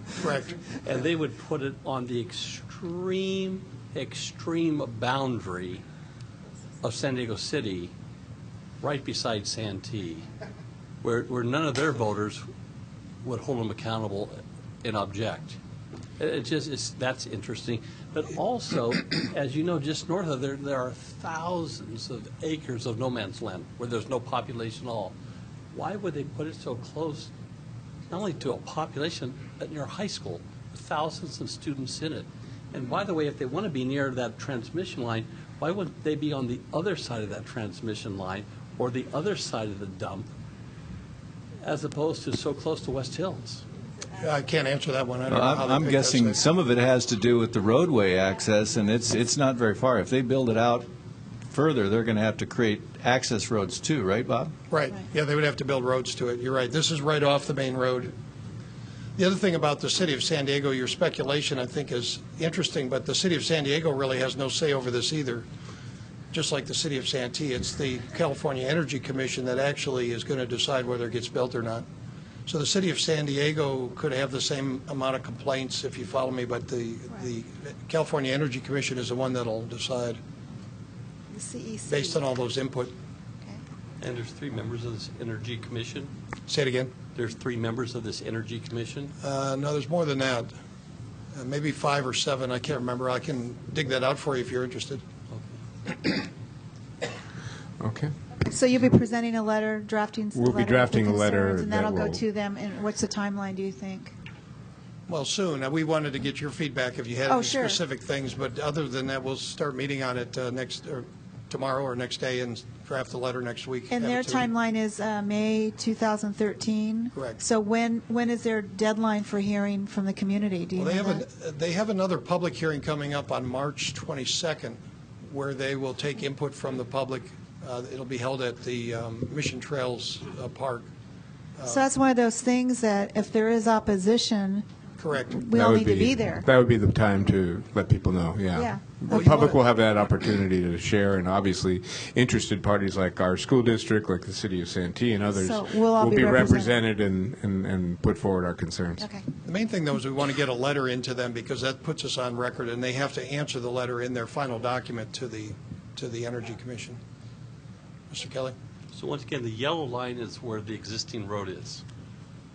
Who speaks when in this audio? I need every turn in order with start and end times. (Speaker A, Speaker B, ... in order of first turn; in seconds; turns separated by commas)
Speaker A: 0.2-0.5, Speaker B: 0.8-5.8, Speaker B: 6.8-7.9, Speaker B: 8.8-10.3, Speaker B: 11.0-12.4, Speaker B: 13.2-15.6, Speaker B: 16.2-25.1, Speaker B: 25.7-27.3, Speaker B: 28.1-40.3, Speaker B: 41.6-43.6, Speaker A: 44.1-46.4, Speaker C: 45.3-50.9, Speaker C: 51.5-54.5, Speaker A: 54.7-58.1, Speaker A: 59.2-65.5, Speaker A: 66.3-71.8, Speaker A: 72.5-80.2, Speaker D: 81.3-82.2, Speaker A: 81.9-82.9, Speaker B: 84.0-86.1, Speaker A: 86.5-86.9, Speaker B: 87.1-89.1, Speaker A: 89.2-90.5, Speaker A: 91.3-95.0, Speaker B: 95.3-95.6, Speaker E: 97.8-98.1, Speaker D: 98.4-104.1, Speaker E: 100.3-102.2, Speaker A: 105.1-114.5, Speaker D: 107.3-107.8, Speaker D: 113.9-121.2, Speaker A: 117.1-117.4, Speaker A: 120.8-130.9, Speaker A: 131.6-131.8, Speaker D: 131.7-134.6, Speaker A: 135.0-135.4, Speaker D: 135.3-136.4, Speaker E: 135.5-149.0, Speaker D: 138.5-139.4, Speaker A: 139.1-139.6, Speaker D: 145.3-146.8, Speaker D: 149.0-149.2, Speaker A: 149.4-157.0, Speaker A: 158.1-158.6, Speaker B: 158.9-161.8